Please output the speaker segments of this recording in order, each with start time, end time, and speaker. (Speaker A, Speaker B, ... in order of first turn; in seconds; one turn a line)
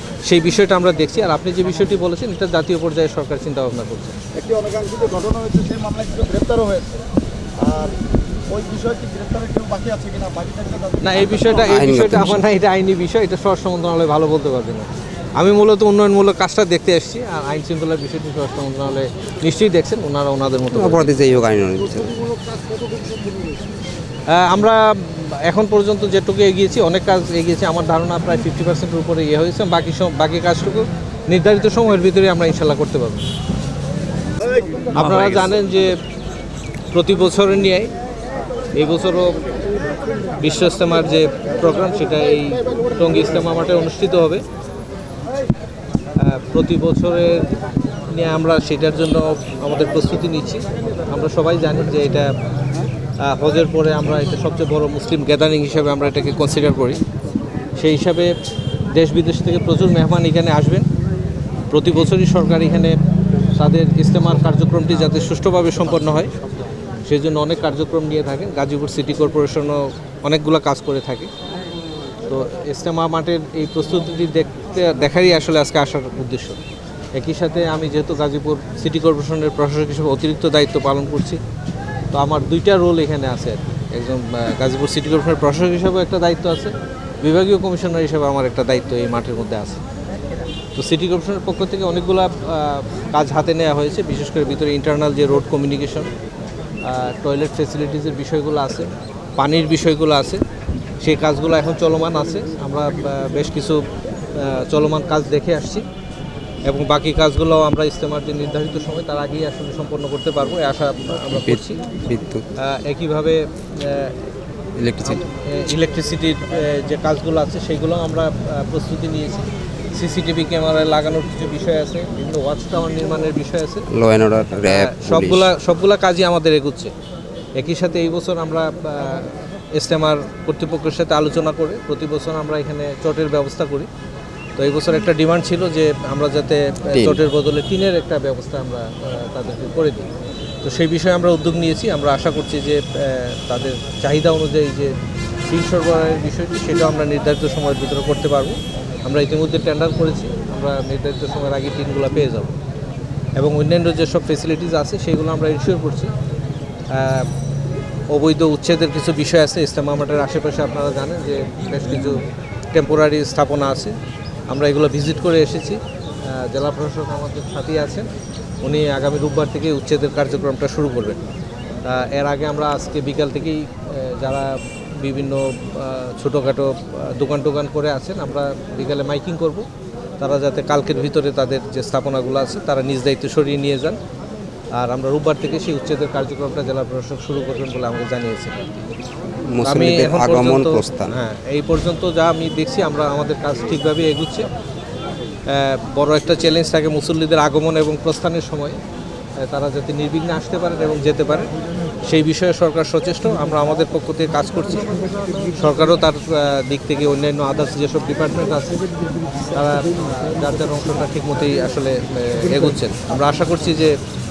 Speaker A: 0.2-4.2
Speaker B: 4.3-7.0
Speaker B: 7.6-8.0
Speaker B: 8.5-11.1
Speaker A: 11.0-21.1
Speaker C: 11.1-12.4
Speaker C: 20.7-22.2
Speaker B: 22.7-23.1
Speaker A: 24.3-33.2
Speaker A: 34.9-35.9
Speaker A: 36.9-37.9
Speaker A: 38.8-39.4
Speaker A: 40.4-44.4
Speaker A: 46.2-47.5
Speaker A: 48.0-52.3
Speaker A: 53.2-57.0
Speaker A: 57.8-58.3
Speaker A: 58.9-60.9
Speaker A: 61.7-63.0
Speaker A: 63.6-66.3
Speaker A: 67.1-71.3
Speaker A: 72.3-76.6
Speaker A: 77.2-81.4
Speaker A: 82.1-89.8
Speaker A: 90.7-96.1
Speaker A: 96.8-100.4
Speaker A: 101.0-103.8
Speaker A: 104.3-105.8
Speaker A: 106.7-111.8
Speaker C: 111.5-112.4
Speaker A: 112.6-114.2
Speaker C: 114.8-115.2
Speaker A: 115.0-123.9
Speaker C: 123.9-125.5
Speaker A: 124.6-126.9
Speaker A: 127.6-133.9
Speaker A: 134.6-140.1
Speaker C: 136.9-137.2
Speaker A: 140.6-144.9
Speaker A: 145.5-152.5
Speaker A: 153.4-156.1
Speaker A: 156.9-157.3
Speaker A: 158.1-162.2
Speaker A: 162.7-163.9
Speaker A: 164.5-168.1
Speaker A: 168.6-171.2
Speaker A: 171.8-179.7
Speaker A: 180.2-184.0
Speaker A: 184.8-188.7
Speaker C: 189.5-191.1
Speaker A: 189.6-194.5
Speaker A: 195.5-198.8
Speaker A: 199.4-201.5
Speaker A: 202.1-204.9
Speaker A: 205.5-208.8
Speaker A: 209.5-213.9